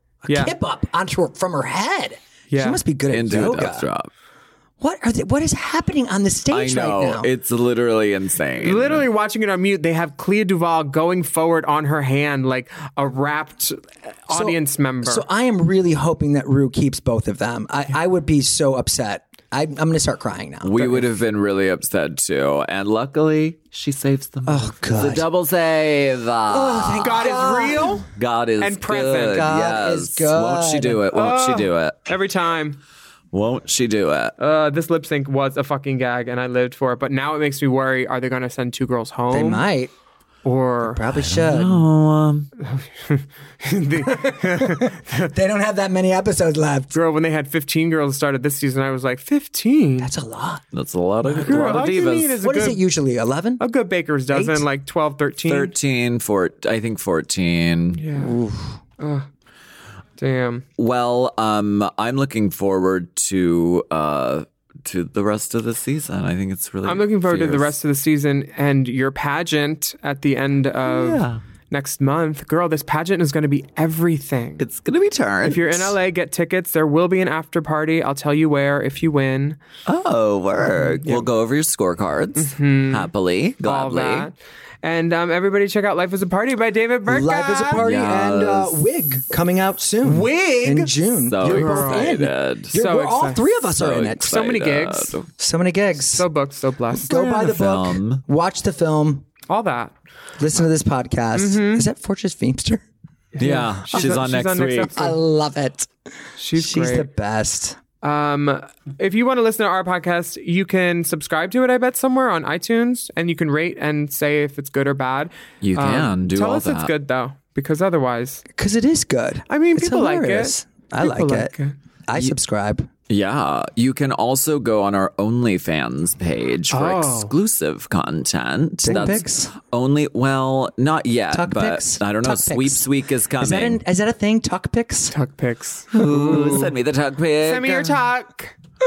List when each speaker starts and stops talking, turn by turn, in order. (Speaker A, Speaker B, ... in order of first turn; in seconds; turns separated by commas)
Speaker A: 0.2-3.9, Speaker B: 0.3-0.6, Speaker B: 2.5-2.8, Speaker C: 3.1-4.1, Speaker A: 4.8-7.3, Speaker C: 6.5-9.1, Speaker B: 8.6-15.2, Speaker A: 14.3-21.1, Speaker C: 20.6-32.0, Speaker A: 24.4-25.3, Speaker A: 26.5-28.1, Speaker B: 27.0-28.1, Speaker B: 28.6-29.4, Speaker A: 29.1-31.1, Speaker B: 31.1-32.8, Speaker C: 33.3-34.4, Speaker B: 34.4-39.6, Speaker A: 39.3-39.9, Speaker B: 40.5-41.0, Speaker A: 40.8-41.9, Speaker C: 41.1-42.5, Speaker B: 42.6-45.3, Speaker A: 44.0-46.9, Speaker B: 46.9-50.1, Speaker A: 50.0-50.6, Speaker C: 50.7-52.4, Speaker A: 51.2-53.6, Speaker B: 51.5-52.8, Speaker B: 53.6-55.7, Speaker A: 54.3-54.6, Speaker C: 55.5-58.0, Speaker B: 57.9-58.4, Speaker A: 58.1-58.8, Speaker B: 59.0-59.3, Speaker B: 60.2-60.6, Speaker C: 60.8-67.8, Speaker B: 66.8-74.7, Speaker C: 70.8-71.4, Speaker C: 74.6-76.0, Speaker B: 75.4-79.6, Speaker C: 79.9-84.3, Speaker B: 80.7-81.3, Speaker B: 82.4-83.1, Speaker B: 83.6-87.8, Speaker A: 87.1-94.4, Speaker C: 87.8-88.9, Speaker B: 90.0-90.9, Speaker C: 91.2-92.7, Speaker B: 91.4-93.6, Speaker C: 93.8-95.3, Speaker B: 94.2-95.2, Speaker A: 95.4-96.3, Speaker B: 96.0-97.1, Speaker A: 96.9-99.3, Speaker C: 97.1-98.2, Speaker B: 99.5-100.0, Speaker A: 100.4-102.8, Speaker B: 101.3-101.9, Speaker B: 103.3-105.2, Speaker C: 103.4-105.0, Speaker A: 105.0-105.9, Speaker B: 106.4-107.1, Speaker A: 106.5-107.8, Speaker B: 108.0-118.4, Speaker C: 115.6-116.9, Speaker A: 118.5-121.5, Speaker B: 119.5-121.8, Speaker A: 122.1-122.9, Speaker C: 123.1-133.8, Speaker B: 126.7-127.3, Speaker A: 128.8-129.5, Speaker A: 131.3-135.2, Speaker B: 135.1-136.7, Speaker C: 135.9-138.0, Speaker B: 137.4-138.5